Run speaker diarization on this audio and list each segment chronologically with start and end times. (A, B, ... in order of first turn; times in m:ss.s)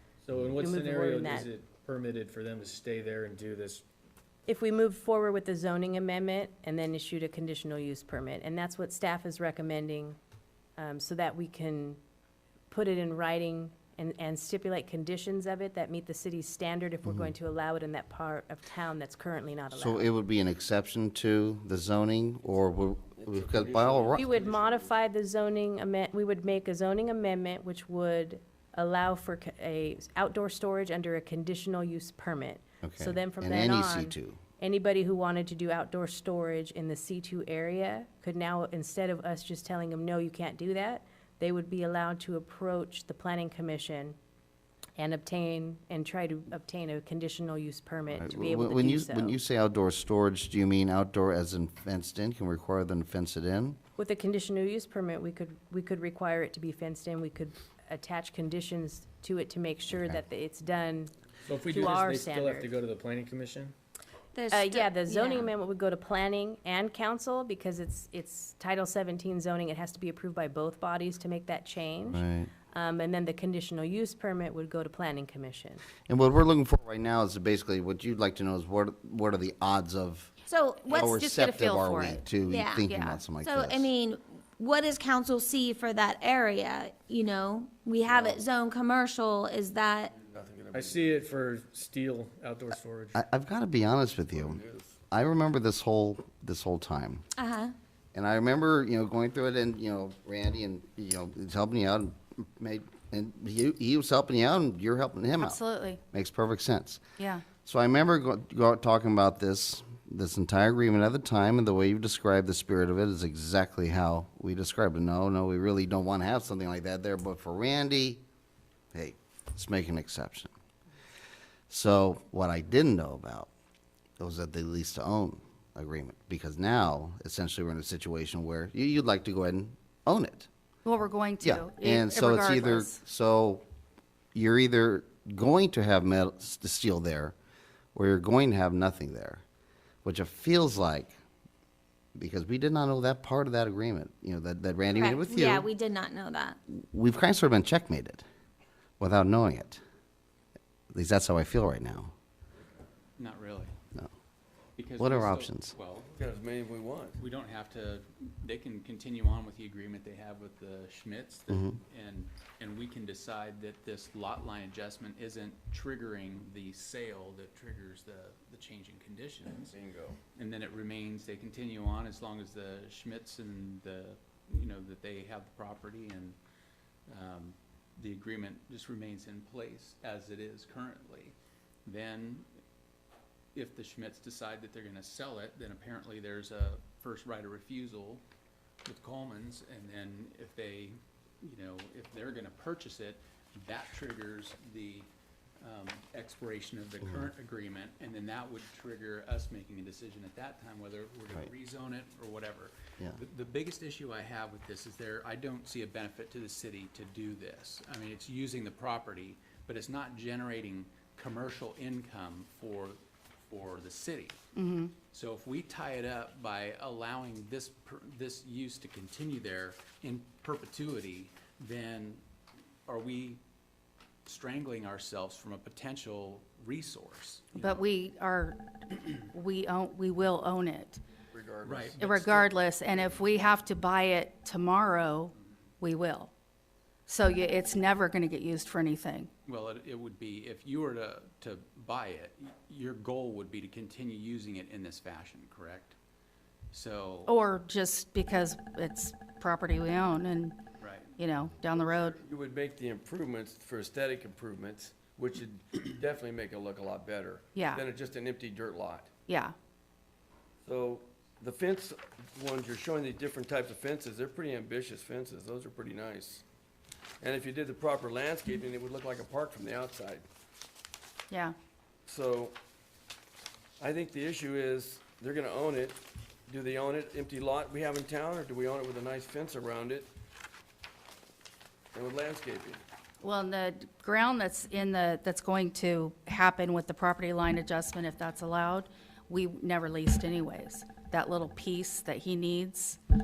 0:00.2-0:03.8 A
0:00.6-0:01.5 B
0:04.5-0:10.2 B
0:10.8-0:12.0 B
0:12.7-0:20.1 B
0:17.0-0:17.3 C
0:19.7-0:24.4 C
0:23.7-0:24.1 D
0:24.1-0:44.2 B
0:32.8-0:34.4 C
0:45.0-0:49.4 B
0:48.2-0:53.8 C
0:54.0-1:01.1 B
0:59.9-1:00.2 C
1:01.4-1:03.7 A
1:01.6-1:02.7 B
1:04.3-1:05.5 E
1:04.5-1:15.8 B
1:12.1-1:12.5 C
1:16.1-1:20.3 C
1:20.5-1:21.6 E
1:20.9-1:23.9 C
1:21.4-1:22.3 F
1:22.4-1:30.1 E
1:22.8-1:23.2 F
1:28.0-1:28.4 D
1:30.2-1:31.2 D
1:30.7-1:33.2 A
1:33.1-1:34.6 C
1:34.3-1:35.0 D
1:35.1-1:37.2 C
1:37.4-1:37.7 E
1:38.1-1:47.0 C
1:45.4-1:46.0 F
1:47.2-1:47.4 F
1:47.6-1:58.2 C
1:58.9-2:00.5 C
2:01.7-2:03.5 C
2:04.2-2:10.5 C
2:10.8-2:13.0 F
2:11.4-2:13.6 C
2:14.3-2:17.3 C
2:17.9-2:19.4 C
2:20.0-2:21.1 C
2:22.1-2:25.7 C
2:24.9-2:26.6 E
2:26.7-2:28.2 C
2:29.0-2:29.8 C
2:30.9-2:32.1 C
2:33.2-2:33.7 G
2:34.8-2:36.1 G
2:35.0-2:35.7 C
2:36.1-2:37.2 D
2:37.1-2:49.8 G
2:41.5-2:41.8 C
2:49.7-2:50.2 D
2:50.3-2:56.4 G
2:57.1-3:01.3 G
3:01.8-3:02.4 G
3:03.5-3:08.2 G
3:08.8-3:15.1 G
3:15.6-3:34.4 G
3:34.5-3:34.9 F
3:35.1-3:42.2 G
3:42.9-3:43.4 G
3:44.2-3:47.9 G
3:47.5-3:51.0 F
3:51.3-3:52.4 D
3:51.6-3:52.5 G
3:52.0-3:56.3 F
3:57.1-3:59.3 F
3:59.4-4:05.9 G
4:06.7-4:07.3 G
4:07.2-4:10.6 F
4:10.8-4:11.1 G
4:11.2-4:12.2 F
4:12.1-4:19.1 D
4:17.5-4:17.8 F
4:19.3-4:19.5 F
4:20.6-4:26.4 D
4:27.2-4:30.2 D
4:31.3-4:31.6 F
4:32.0-4:32.6 D
4:33.8-4:40.1 D
4:41.9-4:42.8 D
4:43.2-4:53.0 F